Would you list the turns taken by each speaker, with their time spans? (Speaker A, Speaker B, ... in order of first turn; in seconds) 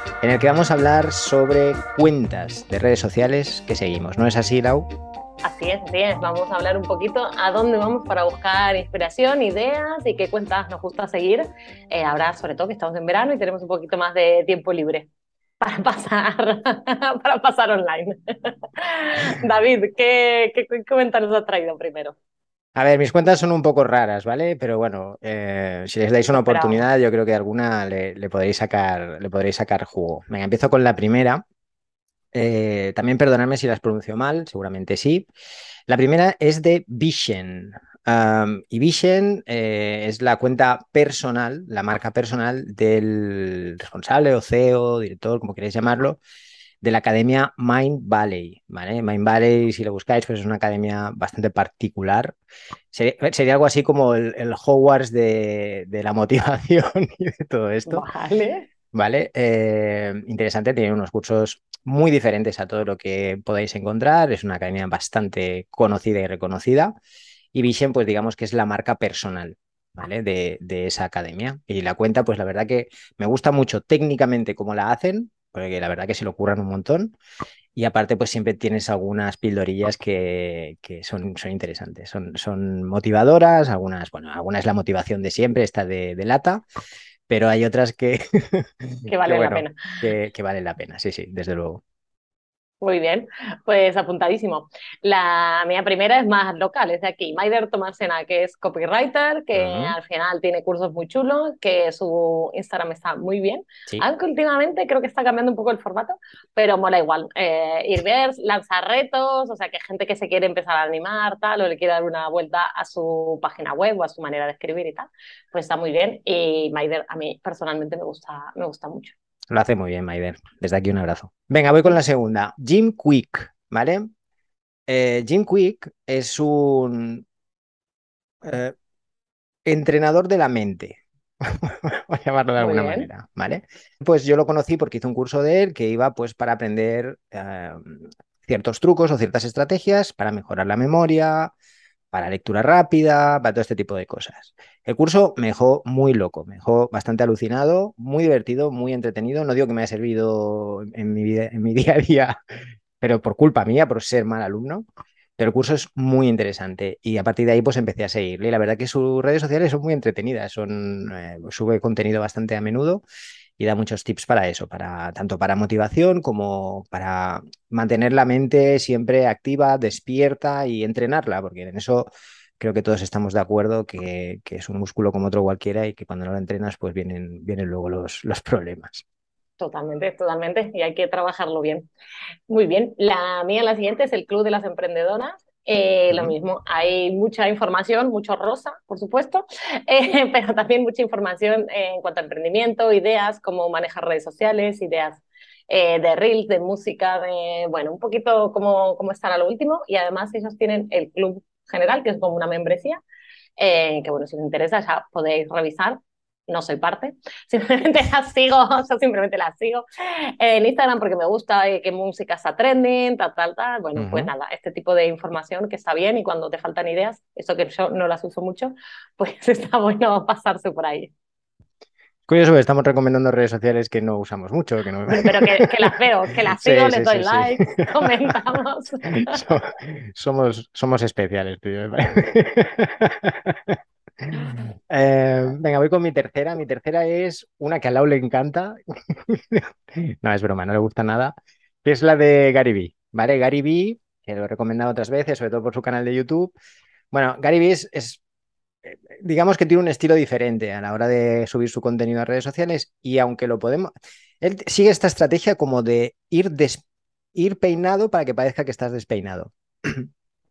Speaker A: 0.2-4.9, 22.8-31.4, 32.3-35.3, 35.9-46.2, 46.8-52.4, 52.9-58.0, 58.9-66.9, 67.5-77.2, 77.8-86.6, 87.3-91.8, 99.5-100.0, 119.5-124.1, 124.9-127.2, 128.4-128.7, 129.7-141.5, 142.1-152.4, 153.0-154.8, 155.4-163.0, 163.6-179.0, 186.1-186.3, 213.9-214.3, 222.3-225.9, 226.5-228.3, 229.1-246.5, 247.1-248.2, 248.8-256.8, 257.3-260.1
Speaker B: 5.4-15.1, 15.6-22.1, 26.3-26.8, 57.9-58.6, 89.1-90.0, 92.8-119.1, 132.6-133.1, 179.6-181.9, 182.5-203.0, 203.6-221.1, 225.1-229.4